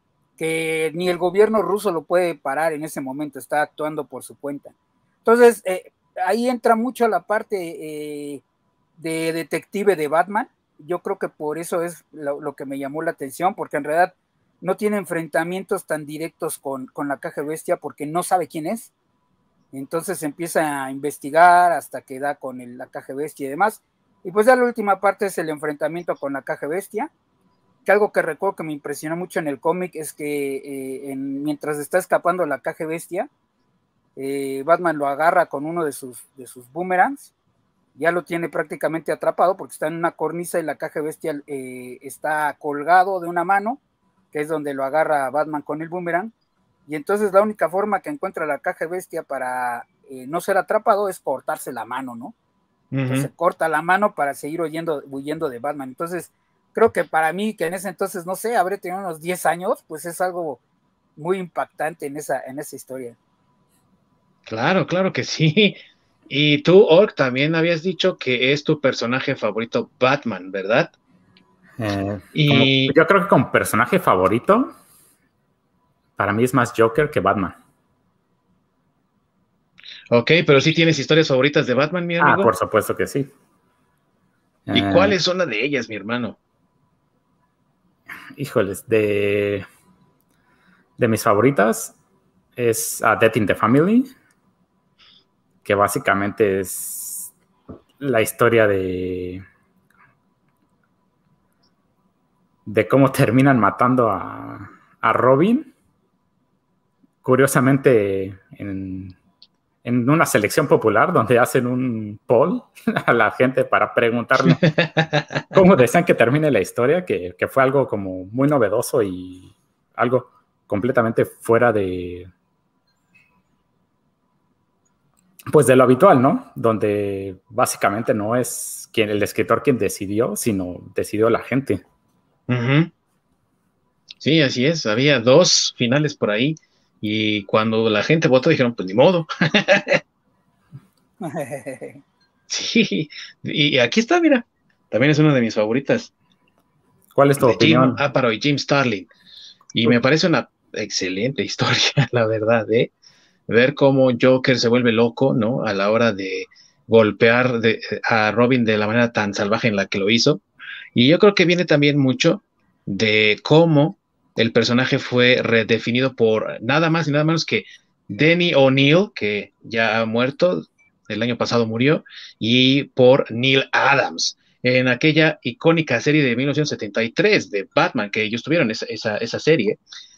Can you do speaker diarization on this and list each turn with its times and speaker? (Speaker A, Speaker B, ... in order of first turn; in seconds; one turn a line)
Speaker A: 0.4-4.7
Speaker A: 5.2-8.4
Speaker A: 9.0-18.9
Speaker A: 19.7-27.1
Speaker A: 27.9-33.3
Speaker A: 34.1-37.3
Speaker A: 38.0-43.8
Speaker A: 44.3-46.3
Speaker A: 46.9-52.3
Speaker B: 52.9-53.3
Speaker A: 53.1-60.6
Speaker A: 61.2-63.2
Speaker B: 64.5-65.8
Speaker B: 66.3-70.9
Speaker C: 71.8-74.7
Speaker B: 72.3-72.9
Speaker C: 76.2-77.6
Speaker B: 80.1-82.5
Speaker C: 82.2-83.3
Speaker C: 84.7-85.2
Speaker B: 84.7-86.4
Speaker C: 88.3-89.6
Speaker C: 91.0-92.0
Speaker C: 92.5-94.1
Speaker C: 95.6-97.3
Speaker C: 98.0-99.4
Speaker C: 102.7-105.7
Speaker C: 107.2-109.2
Speaker C: 109.8-114.6
Speaker B: 114.5-115.5
Speaker C: 115.5-122.3
Speaker C: 125.5-131.8
Speaker B: 132.5-132.9
Speaker B: 134.2-140.0
Speaker A: 141.2-142.0
Speaker B: 142.5-146.1
Speaker C: 147.1-148.0
Speaker B: 147.4-149.1
Speaker B: 149.7-152.9
Speaker B: 153.5-160.4
Speaker B: 160.9-179.8